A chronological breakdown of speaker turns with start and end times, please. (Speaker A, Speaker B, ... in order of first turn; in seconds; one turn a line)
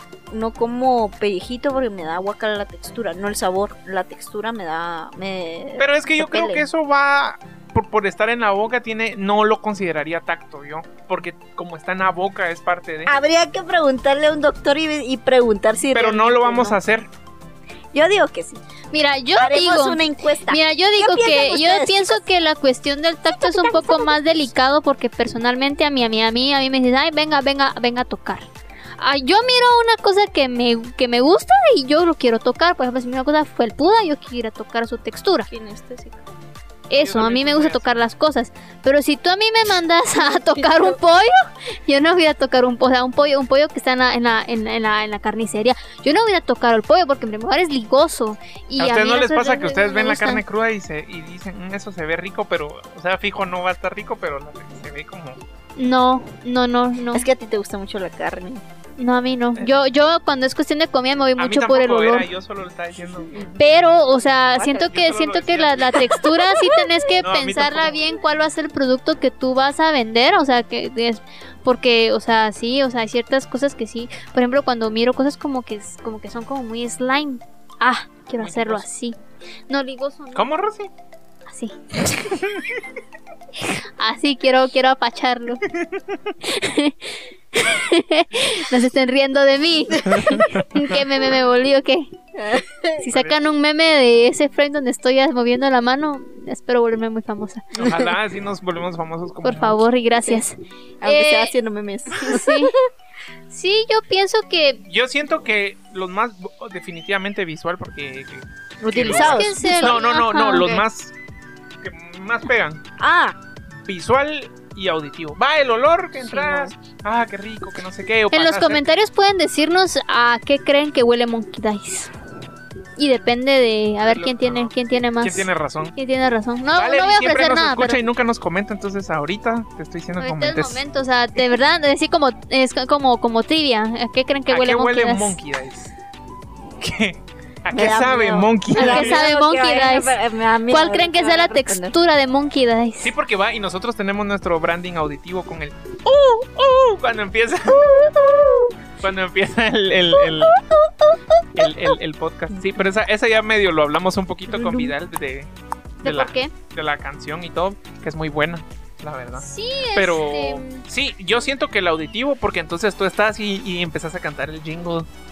Speaker A: 0.3-6.7
Speaker B: 5.8-13.1
Speaker A: 13.1-16.8
Speaker B: 15.9-17.1
Speaker A: 17.9-18.6
Speaker C: 18.9-35.5
Speaker A: 19.4-22.2
Speaker A: 23.4-24.2
Speaker A: 35.5-36.3
Speaker C: 36.9-50.4
Speaker B: 36.9-38.0
Speaker A: 40.2-41.0
Speaker B: 48.8-55.4
Speaker C: 55.8-57.3
Speaker A: 57.1-58.6
Speaker C: 59.0-62.2
Speaker B: 61.4-63.5
Speaker C: 63.5-79.2
Speaker B: 64.5-66.1
Speaker A: 66.2-66.8
Speaker B: 67.2-68.0
Speaker B: 78.4-78.9
Speaker C: 79.7-80.5
Speaker B: 80.3-80.9
Speaker C: 81.5-82.4
Speaker B: 82.3-82.7
Speaker C: 83.6-85.6
Speaker B: 85.7-86.3
Speaker C: 86.4-92.1
Speaker B: 90.2-90.9
Speaker A: 92.3-93.0
Speaker C: 93.0-97.7
Speaker B: 93.0-93.4
Speaker B: 97.7-99.8
Speaker A: 97.8-98.1
Speaker C: 99.4-101.5
Speaker A: 101.0-102.8
Speaker C: 102.1-102.7
Speaker C: 103.5-104.8
Speaker B: 104.8-111.1
Speaker A: 108.8-110.0
Speaker C: 109.0-110.8
Speaker B: 111.8-112.8
Speaker A: 113.0-113.4
Speaker B: 113.7-118.9
Speaker A: 116.2-116.7
Speaker C: 118.3-122.1
Speaker C: 123.0-128.0
Speaker B: 124.0-125.9
Speaker B: 126.7-130.8
Speaker C: 130.2-135.4
Speaker B: 134.5-135.9
Speaker B: 136.8-139.2
Speaker A: 137.7-141.9
Speaker C: 138.7-140.2
Speaker C: 140.7-143.1
Speaker B: 143.0-148.0
Speaker A: 147.7-148.8
Speaker B: 149.0-150.6
Speaker A: 150.1-151.9
Speaker B: 151.6-165.1
Speaker A: 154.5-154.9
Speaker C: 156.0-156.5
Speaker C: 159.4-160.8